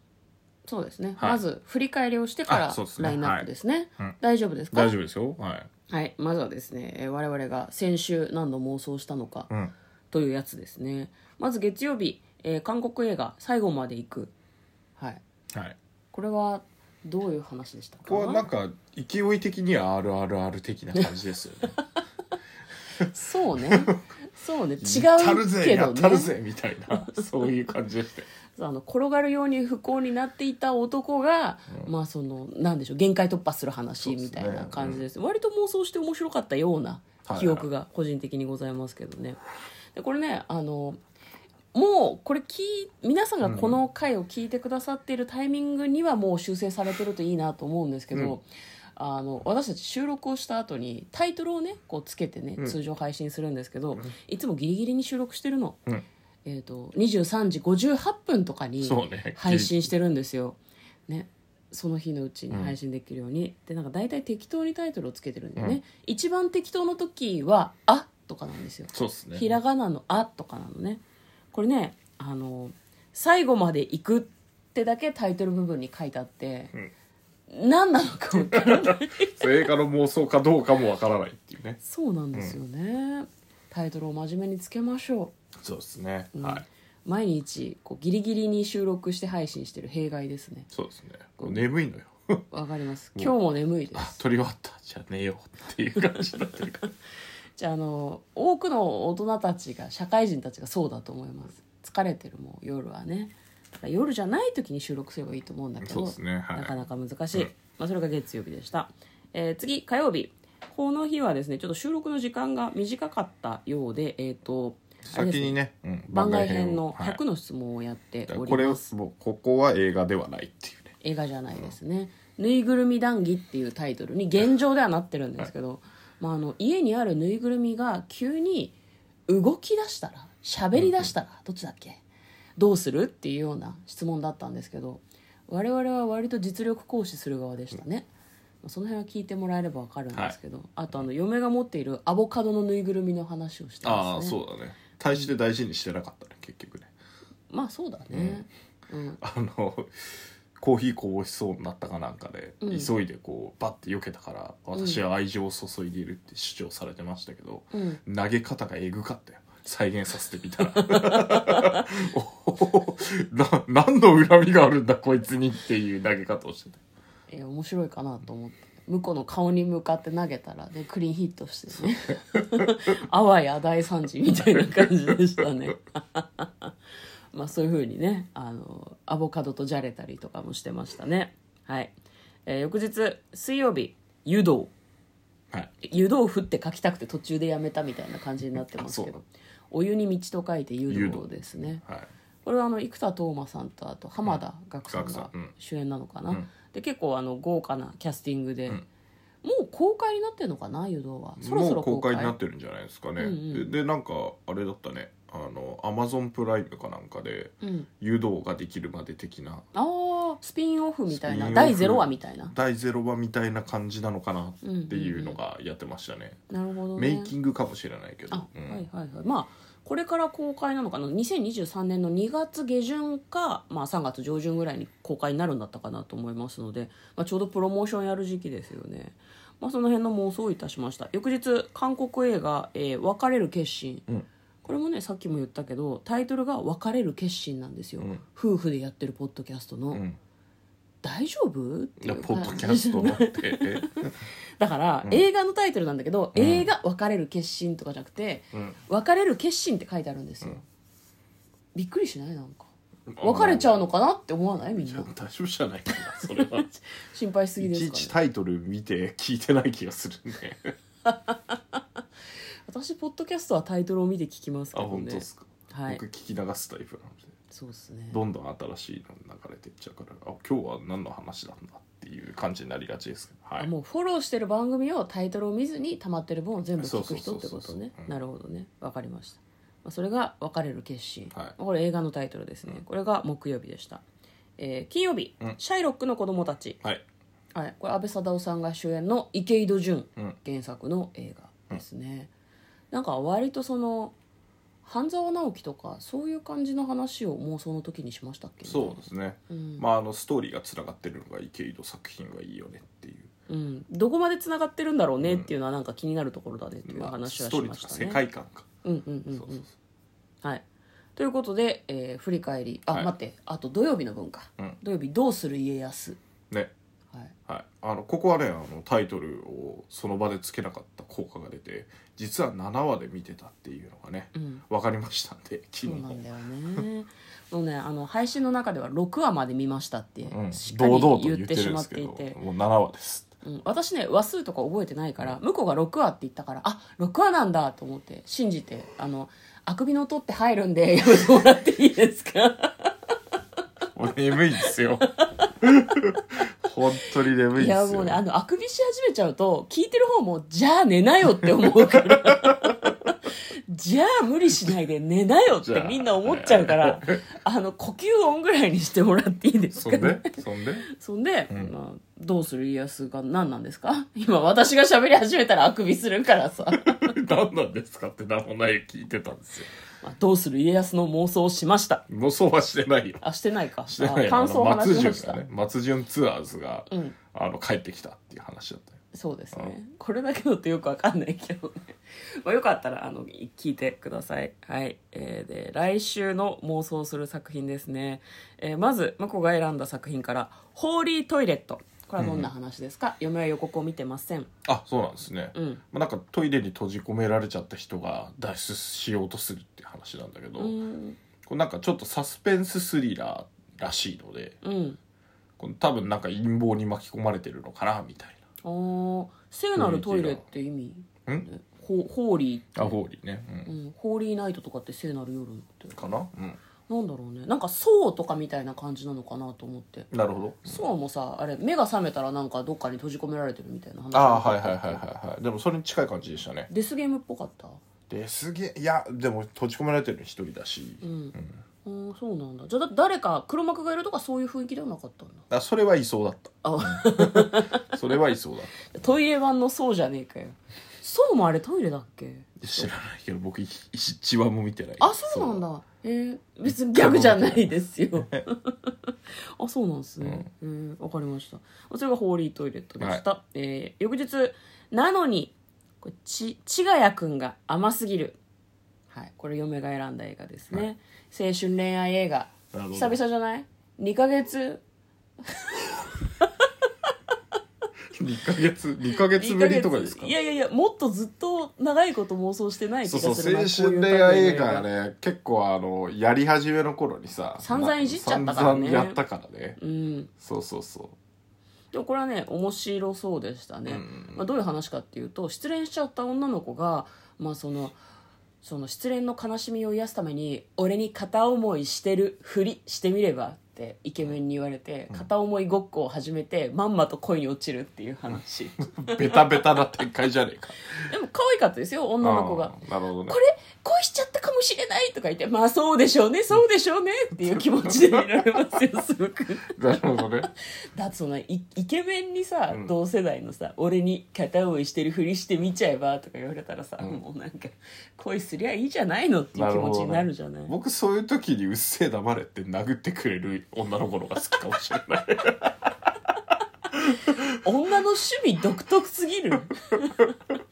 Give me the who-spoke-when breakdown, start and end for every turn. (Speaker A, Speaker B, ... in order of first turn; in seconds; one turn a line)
Speaker A: 0.7-4.9
Speaker B: 2.5-4.2
Speaker B: 4.7-5.7
Speaker A: 5.9-9.5
Speaker B: 9.5-9.7
Speaker A: 10.1-14.3
Speaker A: 16.1-18.5
Speaker B: 18.1-21.8
Speaker A: 23.0-26.3
Speaker B: 23.6-24.0
Speaker B: 24.8-28.3
Speaker A: 28.5-39.4
Speaker B: 34.0-35.0
Speaker B: 37.2-37.7
Speaker A: 39.9-41.0
Speaker A: 41.7-55.8
Speaker B: 43.4-43.8
Speaker A: 56.5-71.0
Speaker B: 58.8-59.9
Speaker B: 68.9-69.5
Speaker A: 71.5-76.7
Speaker A: 77.5-79.5
Speaker B: 78.5-81.8
Speaker A: 81.8-85.3
Speaker B: 82.3-82.6
Speaker B: 85.6-86.6
Speaker A: 86.3-90.7
Speaker B: 90.7-92.5
Speaker A: 91.4-91.7
Speaker A: 92.5-94.2
Speaker B: 94.0-96.9
Speaker A: 97.6-115.6
Speaker B: 105.8-106.8
Speaker B: 115.0-117.2
Speaker A: 116.1-118.9
Speaker B: 118.3-121.0
Speaker A: 121.0-128.8
Speaker A: 129.3-132.0
Speaker B: 130.8-131.1
Speaker A: 132.6-138.1
Speaker A: 138.6-144.3
Speaker B: 143.8-146.9
Speaker A: 147.5-149.2
Speaker B: 148.1-148.4
Speaker B: 149.2-150.1
Speaker B: 150.6-166.8
Speaker A: 152.6-152.9
Speaker A: 154.8-155.0
Speaker A: 157.7-158.0
Speaker A: 160.8-161.8
Speaker A: 167.3-176.7
Speaker A: 177.3-181.9
Speaker A: 182.5-184.7
Speaker A: 185.8-191.8
Speaker B: 188.7-189.1
Speaker B: 190.9-192.1
Speaker A: 192.4-198.8
Speaker B: 194.2-195.5
Speaker A: 199.4-202.4
Speaker B: 201.4-209.7
Speaker A: 203.2-203.7
Speaker A: 207.6-207.9
Speaker A: 209.7-212.5
Speaker B: 211.1-216.4
Speaker A: 214.6-215.4
Speaker A: 216.5-217.3
Speaker B: 216.9-218.8
Speaker A: 218.3-234.1
Speaker A: 234.6-240.0
Speaker B: 239.9-240.2
Speaker A: 241.0-250.7
Speaker B: 242.0-244.1
Speaker B: 246.3-246.7
Speaker B: 248.5-248.8
Speaker A: 251.8-252.7
Speaker B: 253.1-253.7
Speaker A: 253.2-255.1
Speaker B: 254.8-256.7
Speaker A: 256.1-258.1
Speaker B: 257.6-260.8
Speaker A: 261.1-261.8
Speaker A: 262.7-266.0
Speaker B: 264.7-267.4
Speaker A: 267.5-268.2
Speaker B: 268.1-273.7
Speaker A: 273.6-284.0
Speaker B: 276.8-278.1
Speaker A: 284.6-286.8
Speaker A: 287.5-292.3
Speaker A: 292.9-294.1
Speaker A: 294.9-299.8
Speaker B: 298.7-303.3
Speaker A: 303.5-308.2
Speaker B: 305.2-305.5
Speaker B: 306.9-308.7
Speaker A: 308.9-309.7
Speaker B: 309.3-309.7
Speaker A: 311.2-316.2
Speaker B: 312.9-313.1
Speaker B: 317.5-326.9
Speaker A: 324.4-324.6
Speaker A: 325.9-332.4
Speaker B: 330.3-333.3
Speaker A: 333.4-343.1
Speaker B: 343.9-345.1
Speaker A: 344.6-345.5
Speaker B: 345.6-348.2
Speaker A: 347.5-360.4
Speaker B: 355.6-357.2
Speaker B: 359.7-360.9
Speaker A: 360.9-367.1
Speaker B: 366.7-369.7
Speaker A: 370.0-372.0
Speaker B: 372.1-373.2
Speaker A: 373.2-375.4
Speaker B: 373.9-379.0
Speaker A: 376.9-377.2
Speaker A: 379.1-394.5
Speaker B: 392.2-392.5
Speaker B: 394.6-400.8
Speaker A: 395.5-395.8
Speaker A: 400.6-401.2
Speaker B: 401.5-404.6
Speaker A: 404.6-405.0
Speaker B: 405.6-408.4
Speaker A: 408.6-413.0
Speaker B: 409.8-410.4
Speaker B: 412.8-413.7
Speaker A: 413.7-416.0
Speaker B: 415.9-416.6
Speaker A: 416.9-420.1
Speaker B: 420.1-420.8
Speaker A: 420.6-425.0
Speaker B: 424.1-426.7
Speaker A: 426.7-427.8
Speaker B: 428.1-431.5
Speaker A: 431.0-435.4
Speaker B: 435.5-438.9
Speaker A: 436.6-438.0
Speaker A: 438.9-442.5
Speaker B: 442.6-445.6
Speaker A: 445.0-458.4
Speaker B: 446.7-448.4
Speaker A: 459.1-464.8
Speaker B: 462.7-463.2
Speaker A: 465.4-466.6
Speaker B: 468.1-470.3
Speaker A: 469.2-474.9
Speaker B: 473.1-479.8
Speaker A: 477.6-479.2
Speaker A: 479.8-480.3
Speaker B: 480.4-481.2
Speaker A: 481.9-488.0
Speaker B: 483.9-484.5
Speaker A: 488.6-499.8
Speaker B: 499.0-501.0
Speaker A: 501.0-520.7
Speaker B: 502.2-503.4
Speaker B: 507.5-508.2
Speaker B: 509.7-510.5
Speaker B: 519.5-525.9
Speaker B: 526.9-527.6
Speaker A: 527.6-530.4